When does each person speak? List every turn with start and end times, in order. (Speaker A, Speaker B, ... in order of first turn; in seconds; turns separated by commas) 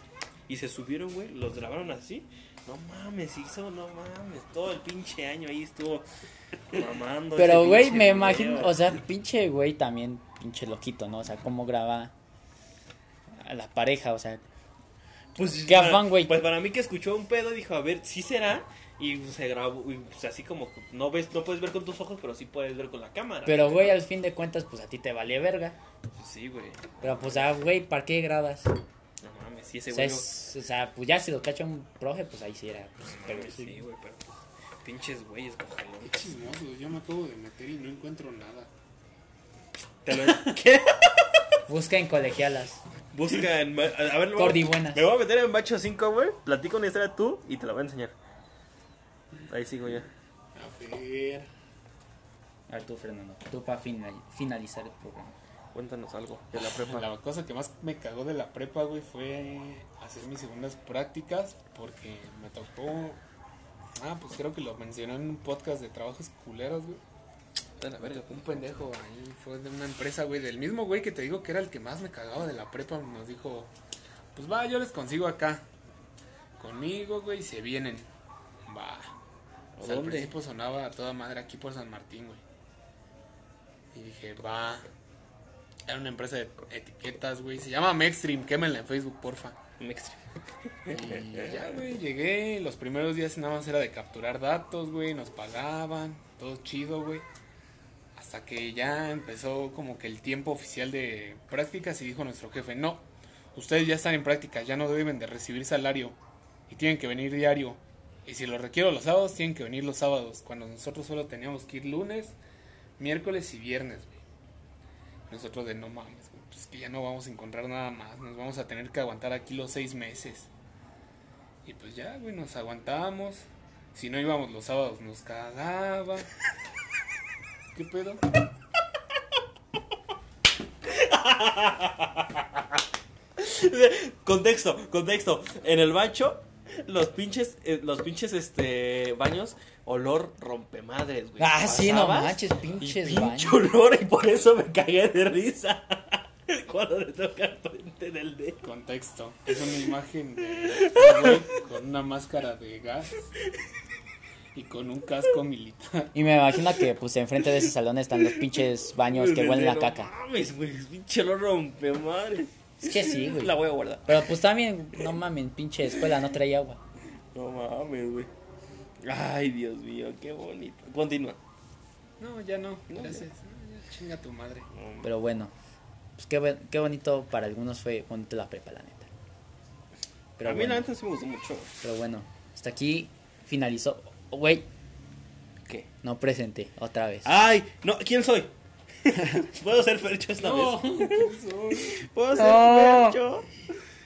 Speaker A: 0.5-6.1, Speaker A: 6.7-9.0, Speaker B: 7.4-12.1, Speaker B: 13.4-14.4, Speaker A: 15.4-23.9, Speaker B: 15.7-16.3, Speaker B: 23.5-25.8, Speaker A: 26.1-27.5, Speaker B: 27.0-28.7, Speaker A: 29.2-30.3, Speaker B: 29.9-33.8, Speaker A: 33.1-36.3, Speaker C: 36.0-38.7, Speaker A: 40.0-41.5, Speaker B: 41.7-42.8, Speaker A: 43.1-48.1, Speaker B: 44.4-45.0, Speaker A: 49.5-50.1, Speaker C: 50.5-51.5, Speaker B: 52.7-55.4, Speaker A: 55.7-57.1, Speaker C: 56.5-63.2, Speaker C: 64.0-67.0, Speaker A: 67.8-68.5, Speaker C: 68.0-73.7, Speaker C: 74.3-75.7, Speaker C: 76.6-78.1, Speaker C: 78.7-79.2, Speaker A: 79.8-80.3, Speaker C: 79.8-82.4, Speaker C: 83.9-84.9, Speaker C: 85.9-89.6, Speaker A: 89.8-91.8, Speaker C: 90.9-97.3, Speaker C: 98.2-106.2, Speaker C: 106.7-112.4, Speaker C: 113.0-114.2, Speaker C: 115.3-120.5, Speaker C: 121.7-126.3, Speaker C: 127.7-128.2, Speaker A: 130.8-132.8, Speaker A: 133.4-148.6, Speaker B: 141.4-143.6, Speaker C: 148.6-153.3, Speaker A: 150.6-151.6, Speaker C: 154.5-156.1, Speaker B: 156.1-160.1, Speaker A: 158.2-164.3, Speaker B: 162.8-163.5, Speaker B: 164.1-166.8, Speaker A: 167.3-168.3, Speaker A: 169.0-171.4, Speaker C: 172.2-174.7, Speaker A: 172.9-173.3, Speaker A: 174.7-175.1, Speaker B: 175.0-175.5, Speaker B: 176.2-179.1, Speaker B: 180.4-180.9, Speaker A: 180.4-181.7, Speaker B: 181.8-184.7, Speaker B: 186.0-187.3, Speaker A: 187.2-188.5, Speaker A: 189.0-193.6, Speaker C: 190.4-192.0, Speaker B: 192.4-193.2